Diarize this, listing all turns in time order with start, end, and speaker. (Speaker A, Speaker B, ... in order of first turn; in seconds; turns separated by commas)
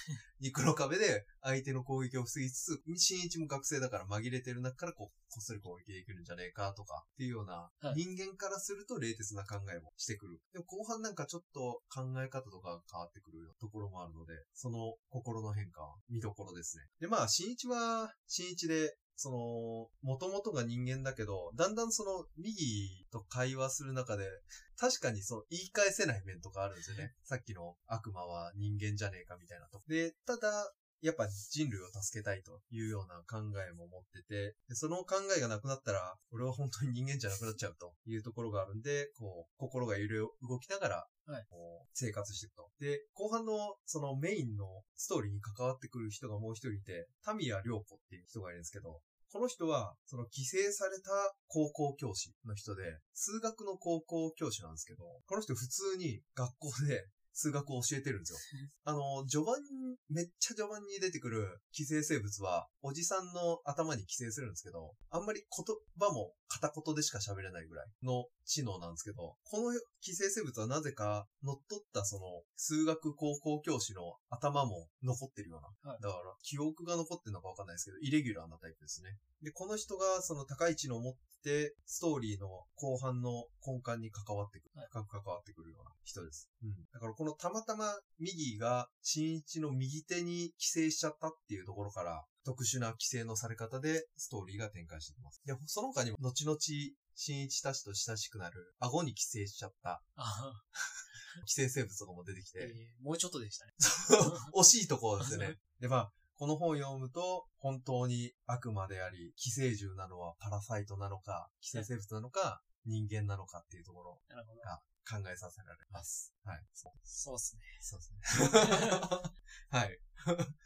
Speaker A: 0.4-100.1, Speaker B: 100.2-100.6, Speaker A: 100.8-102.8, Speaker B: 102.6-104.5, Speaker A: 103.8-117.0, Speaker B: 105.2-105.6, Speaker B: 114.3-114.7, Speaker B: 117.0-117.9, Speaker A: 117.8-120.6, Speaker B: 118.5-119.1